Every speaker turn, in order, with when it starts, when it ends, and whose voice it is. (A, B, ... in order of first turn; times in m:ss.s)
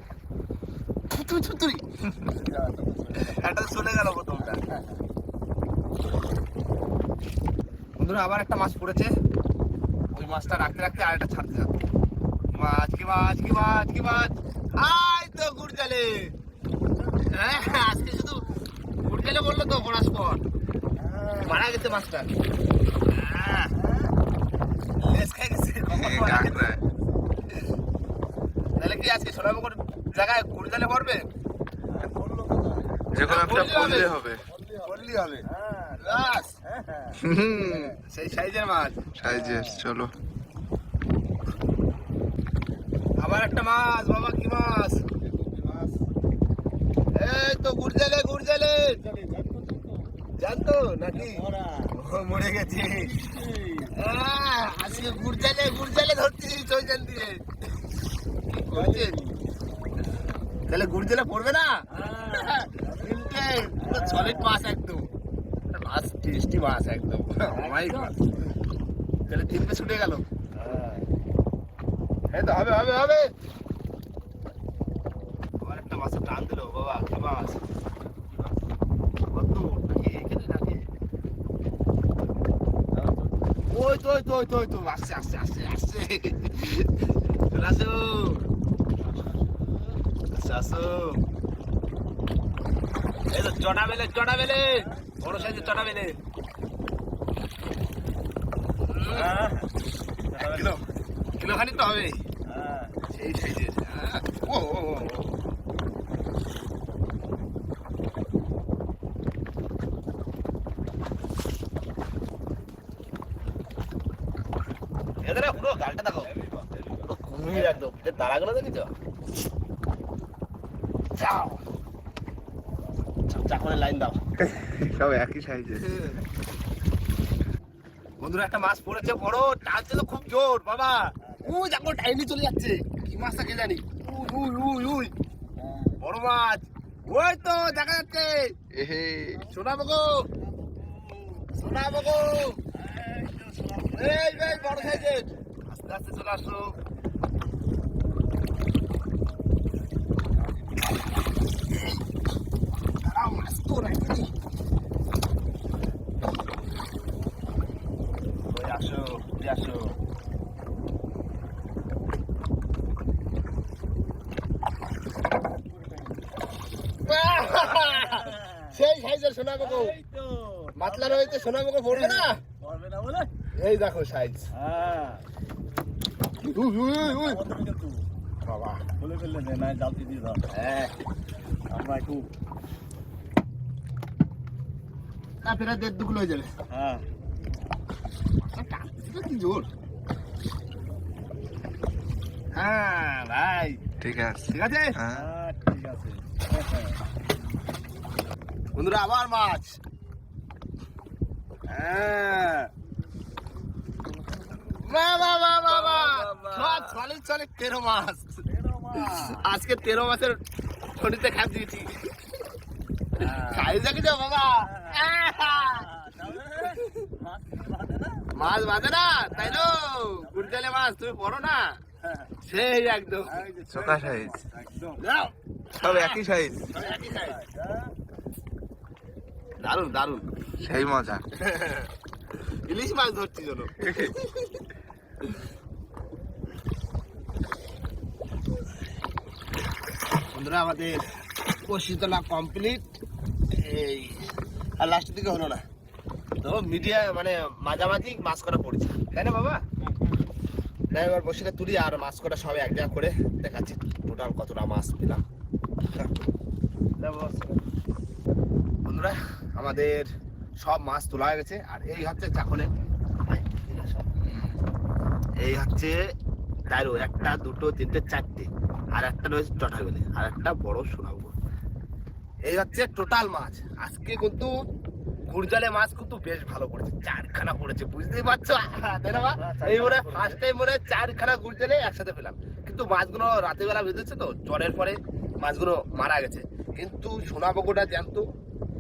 0:01.1-0:01.8 A
0:02.2-0:03.4 B
0:03.1-0:04.6 A
0:04.4-0:05.0 B
0:08.0-0:09.1 A
0:10.1-0:11.7 A
0:12.5-0:16.3 A
0:16.8-0:18.0 B
0:17.2-0:18.5 A
0:19.0-0:20.4 A
0:21.0-0:22.0 B
0:21.4-0:22.3 A
0:23.1-0:23.7 A
0:23.7-0:24.1 B
0:25.0-0:26.7 A
0:25.9-0:26.8 C
0:28.7-0:31.3 A
0:31.9-0:33.0 B
0:33.1-0:34.4 C
0:33.2-0:34.2 A
0:33.6-0:38.0 B
0:34.8-0:35.4 A
0:36.0-0:36.5 A
0:37.2-0:37.9 C
0:37.6-0:39.2 A
0:39.2-0:40.1 C
0:39.2-0:39.9 B
0:43.2-0:45.1 A
0:45.0-0:46.0 B
0:47.1-0:49.0 A
0:48.9-0:50.1 B
0:50.4-0:53.1 A
0:51.1-0:51.9 B
0:52.8-0:53.9 B
0:53.9-0:57.4 A
0:54.9-0:55.2 B
0:58.5-0:59.2 A
0:58.7-0:59.4 B
1:00.7-1:01.7 A
1:01.9-1:03.2 B
1:02.3-1:05.1 A
1:03.8-1:04.5 B
1:05.7-1:08.1 A
1:07.5-1:08.3 B
1:09.3-1:10.2 A
1:10.5-1:11.1 B
1:12.3-1:13.3 A
1:15.6-1:17.6 A
1:19.3-1:20.8 A
1:22.9-1:23.5 B
1:23.7-1:26.9 A
1:27.4-1:28.4 A
1:30.3-1:31.2 A
1:33.3-1:36.2 A
1:34.5-1:36.0 B
1:39.0-1:39.2 A
1:39.0-1:39.7 B
1:40.3-1:40.8 B
1:40.5-1:40.8 A
1:41.4-1:42.2 A
1:42.4-1:43.0 B
1:43.1-1:45.3 A
1:55.2-1:58.9 A
2:01.2-2:01.6 A
2:03.3-2:06.2 A
2:08.2-2:15.1 A
2:11.2-2:11.5 B
2:15.6-2:15.9 B
2:16.0-2:18.7 A
2:18.7-2:19.4 C
2:19.3-2:20.3 A
2:20.4-2:21.5 B
2:21.5-2:22.6 A
2:22.7-2:25.1 B
2:23.9-2:26.7 A
2:33.0-2:34.3 A
2:38.5-2:40.0 A
2:45.7-2:46.2 B
2:47.0-2:50.0 A
2:47.6-2:48.7 B
2:49.6-2:53.3 B
2:50.7-2:52.4 A
2:53.5-2:54.4 A
2:54.5-2:55.2 B
2:56.4-2:57.4 A
2:57.0-2:58.0 B
2:58.4-2:58.9 A
2:59.0-3:00.4 B
3:00.5-3:00.9 A
3:01.7-3:02.3 B
3:05.4-3:06.5 A
3:06.7-3:07.0 B
3:08.4-3:09.7 A
3:12.5-3:13.8 A
3:14.0-3:15.3 C
3:14.4-3:15.0 A
3:15.1-3:16.9 B
3:18.7-3:19.8 A
3:21.7-3:22.7 A
3:24.6-3:28.3 A
3:25.2-3:27.0 B
3:28.5-3:29.4 B
3:29.0-3:30.4 A
3:31.0-3:32.0 A
3:33.2-3:33.8 B
3:33.2-3:35.9 A
3:34.6-3:38.2 B
3:36.6-3:37.0 A
3:38.3-3:41.8 A
3:39.3-3:40.6 B
3:42.0-3:42.3 B
3:42.4-3:43.4 A
3:43.2-3:45.0 B
3:43.7-3:44.4 C
3:44.9-3:45.3 A
3:45.8-3:46.7 C
3:45.8-3:46.1 B
3:46.7-3:47.9 B
3:46.8-3:47.4 A
3:49.6-3:50.2 A
3:50.6-3:51.2 C
3:51.3-3:51.9 A
3:52.5-3:54.0 A
3:53.8-3:54.2 C
4:00.3-4:02.8 A
4:03.5-4:05.6 A
4:06.4-4:09.6 A
4:10.9-4:15.2 A
4:17.0-4:17.5 A
4:18.8-4:20.1 A
4:20.6-4:22.7 A
4:23.3-4:24.1 A
4:24.3-4:24.5 C
4:25.4-4:25.9 A
4:26.7-4:31.3 A
4:32.4-4:34.5 A
4:35.2-4:48.2 A
4:39.2-4:40.4 B